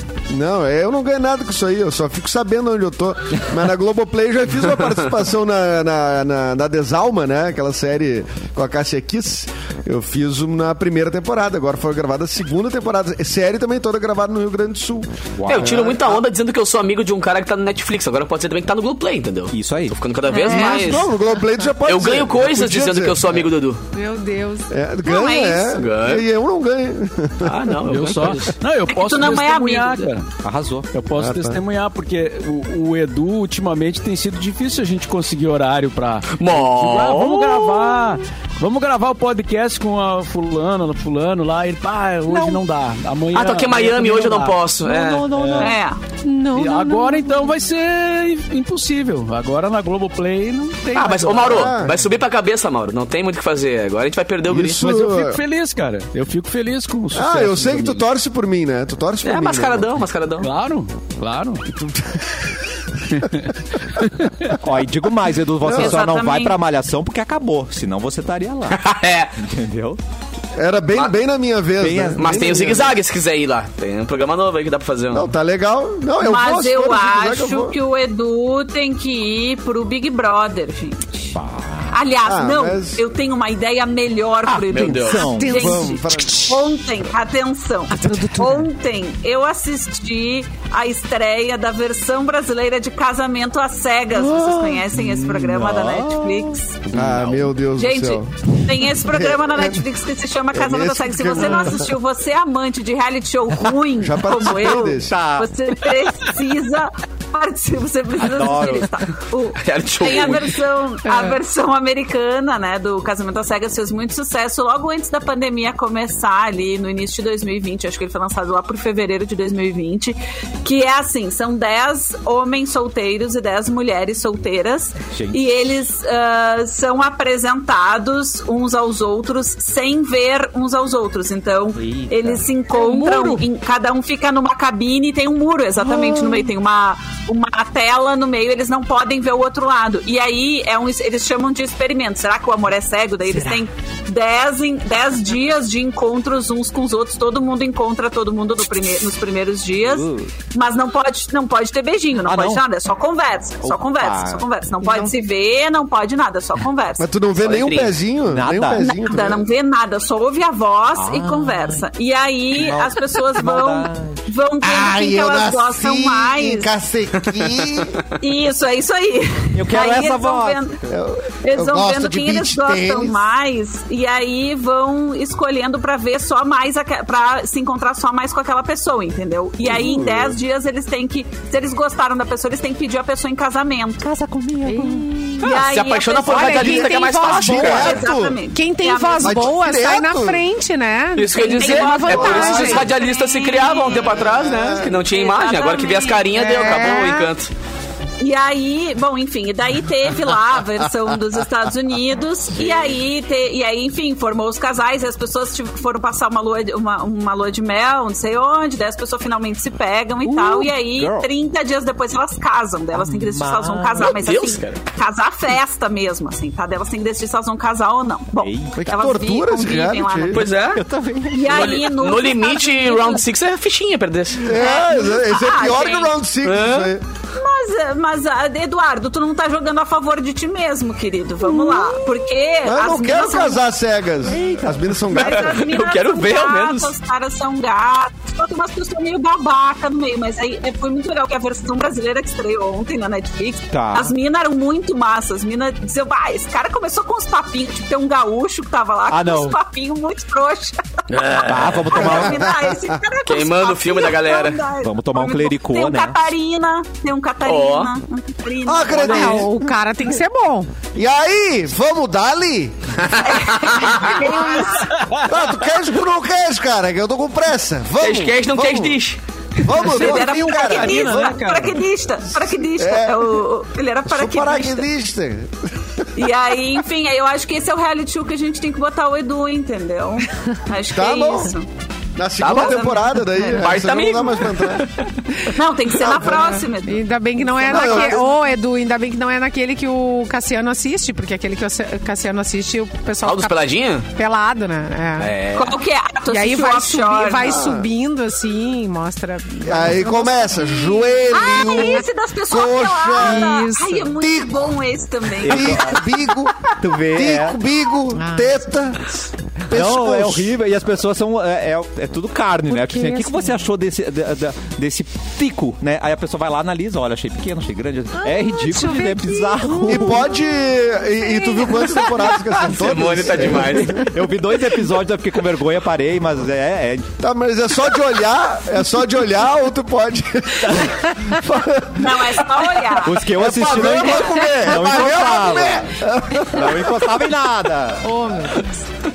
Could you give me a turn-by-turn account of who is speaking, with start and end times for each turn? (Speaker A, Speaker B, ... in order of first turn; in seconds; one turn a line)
Speaker A: 0.3-16.2
Speaker B: 15.3-15.9
Speaker C: 15.5-21.1
Speaker B: 19.5-19.9
Speaker D: 20.3-20.8
Speaker A: 20.5-23.5
Speaker C: 21.8-23.8
Speaker E: 23.9-24.7
Speaker A: 24.7-27.8
Speaker D: 25.0-25.8
Speaker C: 25.8-26.2
Speaker C: 27.4-28.5
Speaker F: 27.8-30.3
Speaker D: 28.9-30.1
Speaker B: 30.4-30.9
Speaker F: 30.9-44.7
Speaker A: 31.1-31.6
Speaker C: 36.3-37.6
Speaker B: 42.3-42.6
Speaker C: 43.3-45.3
Speaker B: 44.8-45.8
Speaker F: 45.3-45.7
Speaker D: 45.6-46.0
Speaker E: 46.2-47.6
Speaker F: 46.5-51.8
Speaker C: 50.9-54.8
Speaker A: 51.4-52.0
Speaker A: 54.5-55.4
Speaker F: 54.8-58.0
Speaker A: 57.1-60.0
Speaker C: 59.2-60.5
Speaker F: 60.4-61.6
Speaker A: 61.8-62.5
Speaker B: 64.6-68.8
Speaker D: 65.6-66.6
Speaker A: 65.6-66.0
Speaker C: 68.7-69.3
Speaker B: 69.4-70.0
Speaker A: 70.6-73.0
Speaker B: 71.8-72.5
Speaker C: 72.2-75.3
Speaker A: 75.1-77.7
Speaker D: 76.2-81.3
Speaker B: 81.3-82.0
Speaker D: 81.9-96.8
Speaker A: 82.3-83.0
Speaker B: 84.5-85.7
Speaker C: 84.7-85.2
Speaker E: 85.1-86.5
Speaker A: 85.5-86.6
Speaker B: 88.0-88.6
Speaker E: 88.1-88.4
Speaker B: 94.1-97.5
Speaker A: 96.9-99.8
Speaker D: 97.8-157.1
Speaker A: 100.5-101.9
Speaker A: 104.0-105.1
Speaker B: 104.8-105.5
Speaker B: 108.2-108.9
Speaker C: 109.6-110.5
Speaker E: 111.1-111.3
Speaker B: 125.1-125.8
Speaker B: 131.7-132.4
Speaker E: 132.7-133.4
Speaker B: 133.0-133.2
Speaker B: 143.3-143.7
Speaker B: 149.8-150.3
Speaker B: 152.2-152.6
Speaker B: 153.6-154.4
Speaker A: 157.0-159.5
Speaker C: 157.4-158.0
Speaker B: 158.3-158.8
Speaker D: 158.8-166.7
Speaker B: 160.9-161.8
Speaker B: 162.5-164.2
Speaker A: 164.6-168.0
Speaker D: 168.2-170.8
Speaker B: 169.5-170.6
Speaker A: 170.8-173.2
Speaker D: 171.4-184.1
Speaker A: 179.7-180.3
Speaker B: 184.0-185.3
Speaker E: 184.6-185.5
Speaker D: 185.4-189.5
Speaker C: 185.4-188.0
Speaker E: 186.3-192.9
Speaker A: 186.4-188.4
Speaker A: 189.2-190.4
Speaker C: 191.2-197.5
Speaker D: 191.3-194.3
Speaker A: 192.3-192.8
Speaker A: 194.0-195.1
Speaker D: 195.0-196.3
Speaker E: 196.3-197.3
Speaker D: 198.2-220.8
Speaker C: 202.6-202.9
Speaker B: 210.2-211.3
Speaker B: 212.9-214.1
Speaker C: 214.0-214.8
Speaker B: 218.4-218.8
Speaker A: 218.8-220.5
Speaker C: 220.3-220.8
Speaker B: 220.7-221.8
Speaker D: 221.3-223.2
Speaker C: 221.5-224.5
Speaker A: 224.4-227.0
Speaker D: 224.5-226.1
Speaker C: 226.4-226.9
Speaker D: 227.3-233.7
Speaker A: 232.6-235.6
Speaker B: 234.3-235.0
Speaker D: 235.1-250.8
Speaker C: 235.1-236.9
Speaker B: 243.7-244.1
Speaker B: 249.1-249.6
Speaker C: 251.1-252.0
Speaker B: 251.4-252.4
Speaker D: 251.9-259.5
Speaker A: 251.9-252.9
Speaker C: 253.3-254.6
Speaker B: 254.8-256.3
Speaker C: 257.4-257.9
Speaker A: 258.6-259.7
Speaker E: 259.0-260.7
Speaker A: 260.9-263.5
Speaker C: 263.1-264.2
Speaker D: 263.2-264.9
Speaker E: 264.3-264.6
Speaker F: 264.8-265.4
Speaker A: 265.2-269.0
Speaker C: 268.0-269.2
Speaker A: 269.6-271.5
Speaker F: 269.7-271.8
Speaker D: 269.7-274.9
Speaker A: 272.4-273.4
Speaker A: 274.1-276.1
Speaker D: 276.1-281.7
Speaker A: 280.9-281.5
Speaker A: 282.2-284.9
Speaker C: 282.4-284.7
Speaker D: 282.5-283.6
Speaker D: 285.5-288.2
Speaker A: 285.9-286.6
Speaker E: 286.8-295.3
Speaker A: 287.6-288.4
Speaker C: 293.2-294.0
Speaker C: 295.2-295.8
Speaker D: 295.5-297.6
Speaker E: 296.3-302.0
Speaker A: 297.4-297.9
Speaker A: 299.6-304.7
Speaker D: 301.3-306.0
Speaker E: 303.2-304.1
Speaker B: 305.4-306.0
Speaker A: 305.4-310.5
Speaker B: 306.8-307.6
Speaker E: 308.1-308.6
Speaker B: 309.7-320.3
Speaker E: 312.7-313.6
Speaker E: 318.2-320.2
Speaker A: 319.9-324.1
Speaker E: 321.2-322.4
Speaker C: 322.7-324.1
Speaker B: 324.0-327.1
Speaker A: 327.2-332.4
Speaker D: 331.9-333.2
Speaker B: 333.0-336.0
Speaker A: 333.2-337.1
Speaker B: 336.5-338.1
Speaker E: 338.0-338.8